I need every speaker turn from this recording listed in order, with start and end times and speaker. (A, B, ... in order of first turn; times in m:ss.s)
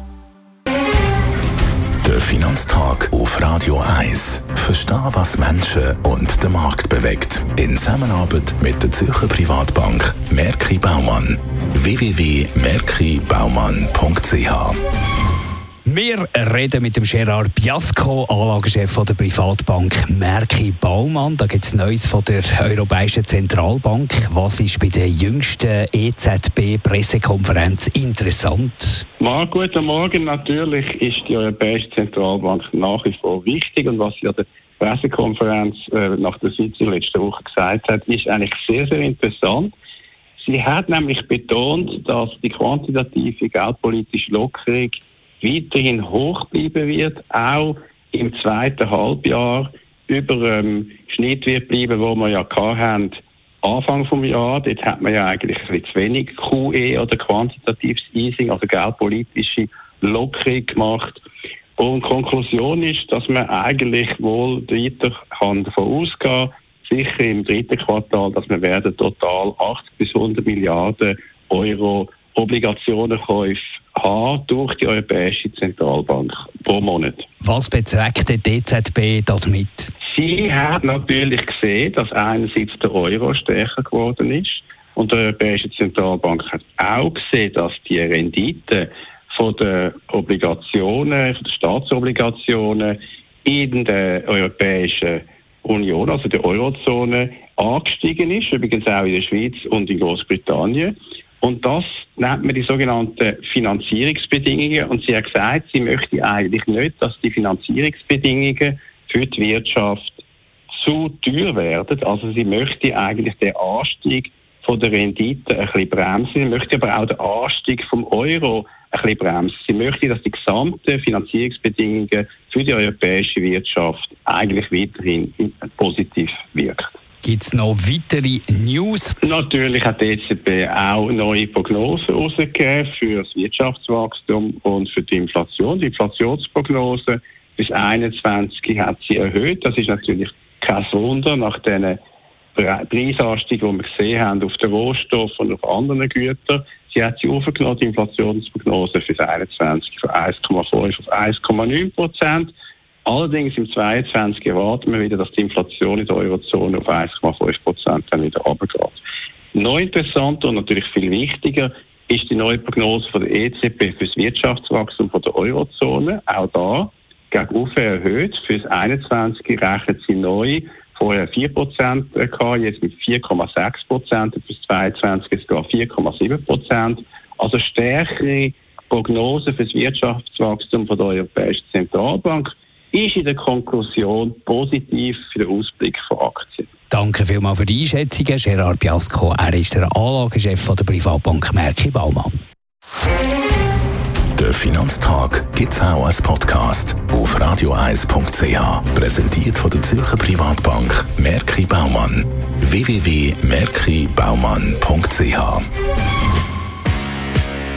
0:02.0-0:14.8 A
0:15.8-0:29.0 B
0:29.2-0:39.7 C
0:40.4-1:01.2 C
1:01.8-1:17.3 C
1:17.4-1:19.9 B
1:20.1-2:06.9 C
2:07.2-2:09.1 B
2:09.2-2:22.0 C
2:22.5-2:32.5 C
2:33.1-2:39.0 C
2:39.5-3:06.7 C
3:06.9-3:12.4 B
3:14.4-3:25.6 A